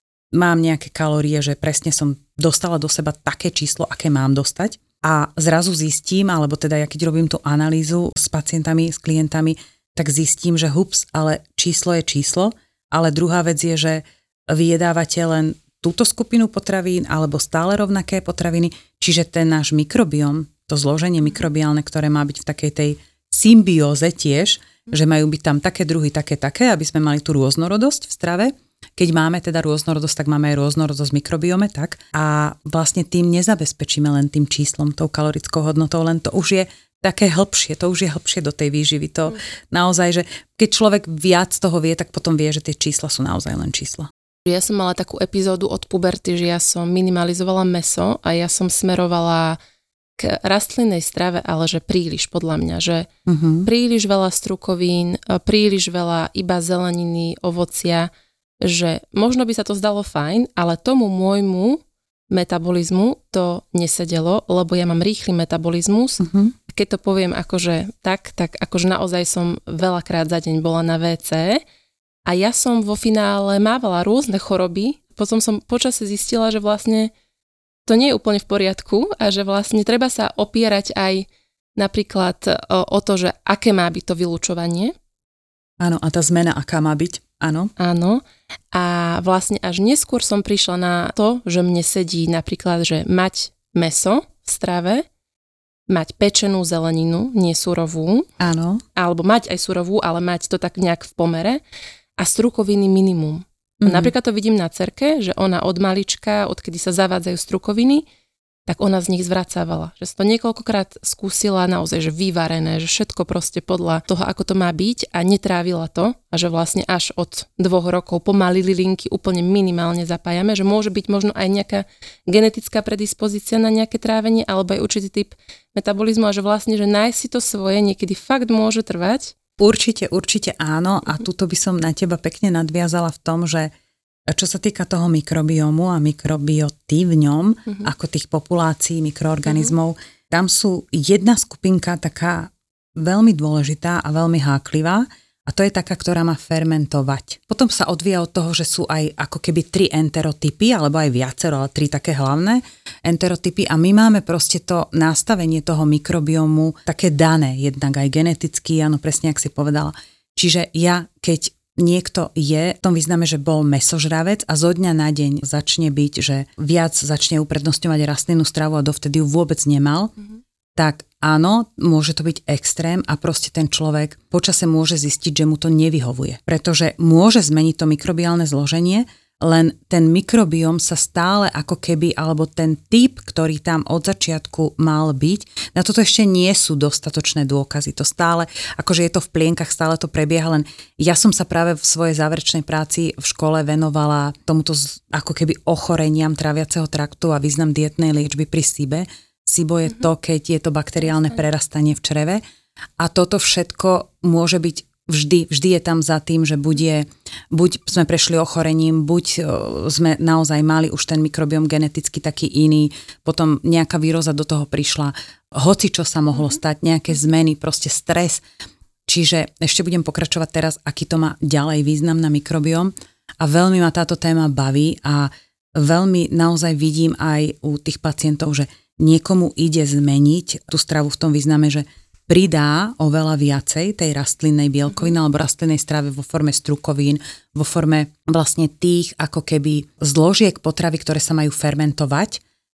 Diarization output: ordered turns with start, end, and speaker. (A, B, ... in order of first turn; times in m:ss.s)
0:00.3-0:44.1 A
0:44.4-0:49.6 B
0:50.2-0:53.1 B
0:53.3-0:53.7 A
0:53.6-0:58.1 B
0:58.6-1:11.6 B
1:06.2-1:06.5 A
1:12.3-1:17.1 B
1:17.8-1:24.9 B
1:25.8-1:27.7 A
1:27.8-1:35.0 B
1:35.9-1:38.3 B
1:38.4-1:38.8 A
1:39.0-1:41.6 B
1:42.2-1:48.0 B
1:43.8-1:44.1 A
1:48.7-2:09.3 B
2:09.6-2:13.7 A
2:14.3-2:50.1 A
2:50.8-3:22.4 A
3:23.0-3:38.4 A
3:39.1-4:02.4 A